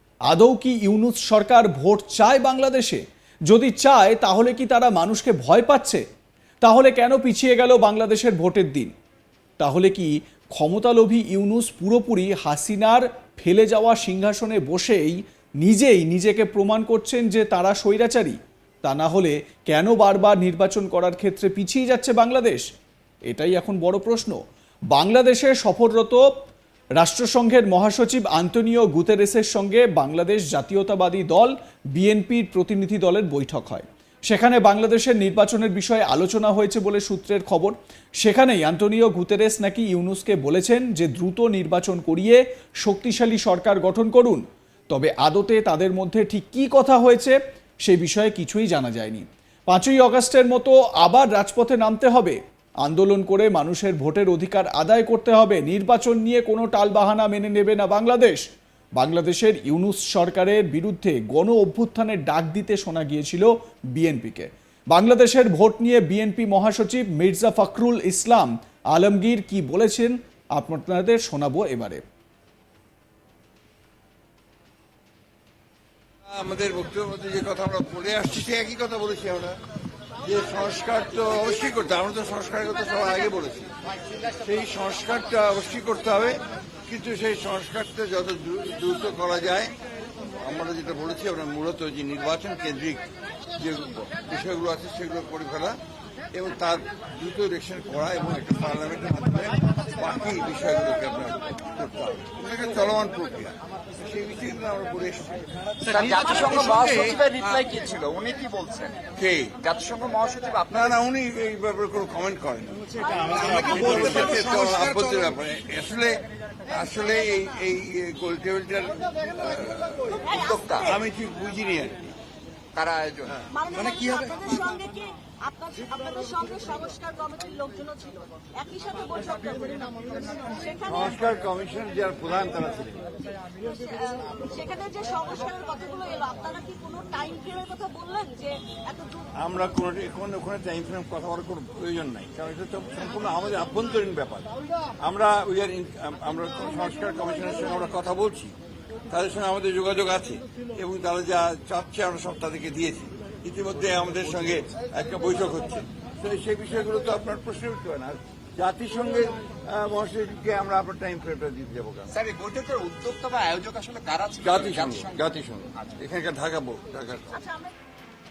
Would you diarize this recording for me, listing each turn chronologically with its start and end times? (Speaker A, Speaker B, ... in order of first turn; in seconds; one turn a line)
Speaker A: 0.3-6.0
Speaker A: 6.6-8.9
Speaker A: 9.6-22.6
Speaker A: 23.3-24.4
Speaker A: 24.9-26.3
Speaker A: 27.0-58.4
Speaker A: 59.0-72.0
Speaker B: 76.2-79.5
Speaker B: 80.2-83.7
Speaker B: 84.3-89.7
Speaker B: 90.4-93.0
Speaker B: 93.5-95.8
Speaker B: 96.3-107.4
Speaker C: 105.8-109.0
Speaker B: 109.1-109.7
Speaker C: 109.6-110.7
Speaker B: 110.7-122.1
Speaker C: 113.5-115.0
Speaker D: 120.2-120.7
Speaker C: 120.5-120.8
Speaker C: 122.7-123.3
Speaker D: 123.5-129.8
Speaker D: 130.4-130.8
Speaker B: 130.8-133.1
Speaker D: 133.7-139.2
Speaker B: 139.4-148.5
Speaker B: 149.1-162.1
Speaker C: 162.1-165.2
Speaker B: 164.4-167.5